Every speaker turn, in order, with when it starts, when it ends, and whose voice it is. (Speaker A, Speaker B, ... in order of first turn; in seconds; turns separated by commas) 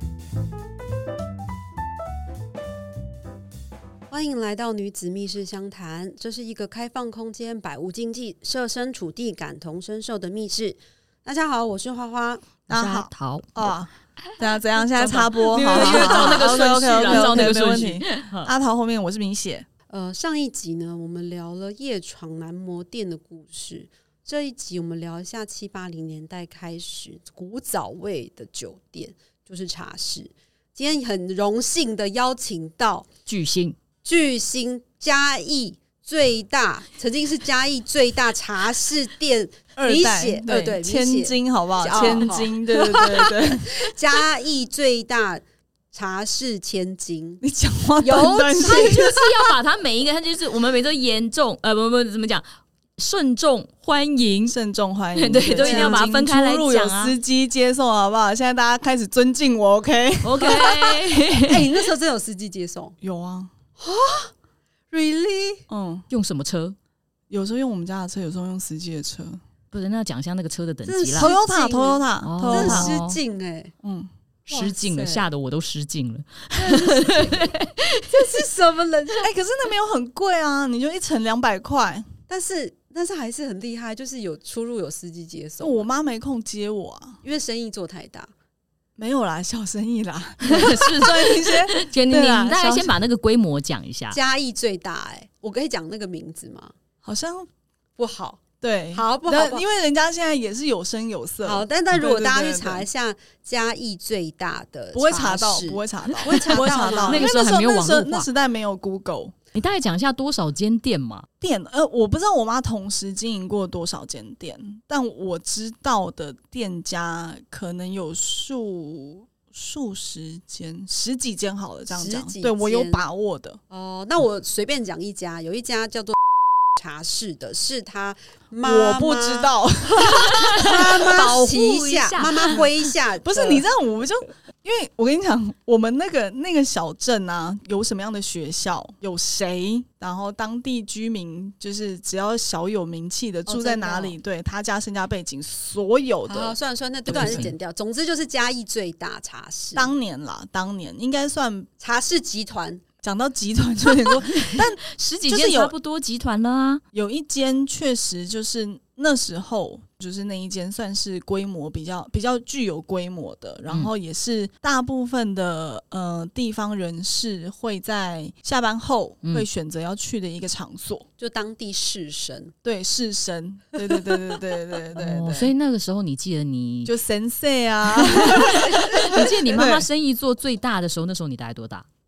Speaker A: 4.1-12.5, Speaker B: 12.7-19.7, Speaker C: 12.7-18.5, Speaker A: 15.6-18.0, Speaker A: 19.9-33.1, Speaker C: 33.3-33.8, Speaker A: 34.0-47.4, Speaker B: 39.8-44.0, Speaker B: 47.4-49.2, Speaker A: 48.0-49.4, Speaker C: 48.7-52.5, Speaker C: 53.0-54.6, Speaker B: 54.5-60.7, Speaker C: 55.1-57.2, Speaker A: 55.5-56.0, Speaker C: 60.2-61.7, Speaker A: 60.5-63.0, Speaker B: 63.0-63.5, Speaker A: 63.8-64.3, Speaker A: 64.9-65.6, Speaker B: 65.7-66.1, Speaker C: 66.1-66.8, Speaker B: 67.3-69.4, Speaker C: 69.7-71.3, Speaker A: 70.8-73.7, Speaker B: 71.2-73.0, Speaker C: 72.2-73.2, Speaker B: 73.8-74.1, Speaker C: 74.5-78.5, Speaker A: 74.5-75.3, Speaker A: 76.6-77.5, Speaker A: 78.1-79.3, Speaker B: 79.2-82.1, Speaker A: 82.3-85.9, Speaker B: 85.6-87.2, Speaker A: 87.2-88.3, Speaker B: 89.0-92.9, Speaker C: 90.5-94.2, Speaker A: 94.1-96.7, Speaker B: 97.0-97.5, Speaker A: 98.0-98.4, Speaker B: 98.6-102.9, Speaker A: 98.9-99.7, Speaker A: 101.4-107.3, Speaker B: 104.9-109.3, Speaker C: 106.5-108.2, Speaker C: 109.5-111.3, Speaker B: 111.4-123.6, Speaker A: 121.9-123.0, Speaker A: 123.7-126.2, Speaker A: 126.8-133.7, Speaker B: 128.6-131.3, Speaker C: 130.2-132.7, Speaker B: 133.2-146.6, Speaker A: 143.5-144.2, Speaker A: 146.3-149.9, Speaker B: 147.1-147.5, Speaker C: 147.1-147.6, Speaker B: 149.8-151.7, Speaker A: 151.8-152.8, Speaker B: 153.0-155.7, Speaker C: 154.3-156.8, Speaker B: 156.9-171.1, Speaker A: 171.2-172.5, Speaker B: 172.6-175.5, Speaker A: 173.8-174.2, Speaker C: 174.9-176.9, Speaker B: 176.9-179.9, Speaker C: 178.0-181.9, Speaker A: 178.7-179.1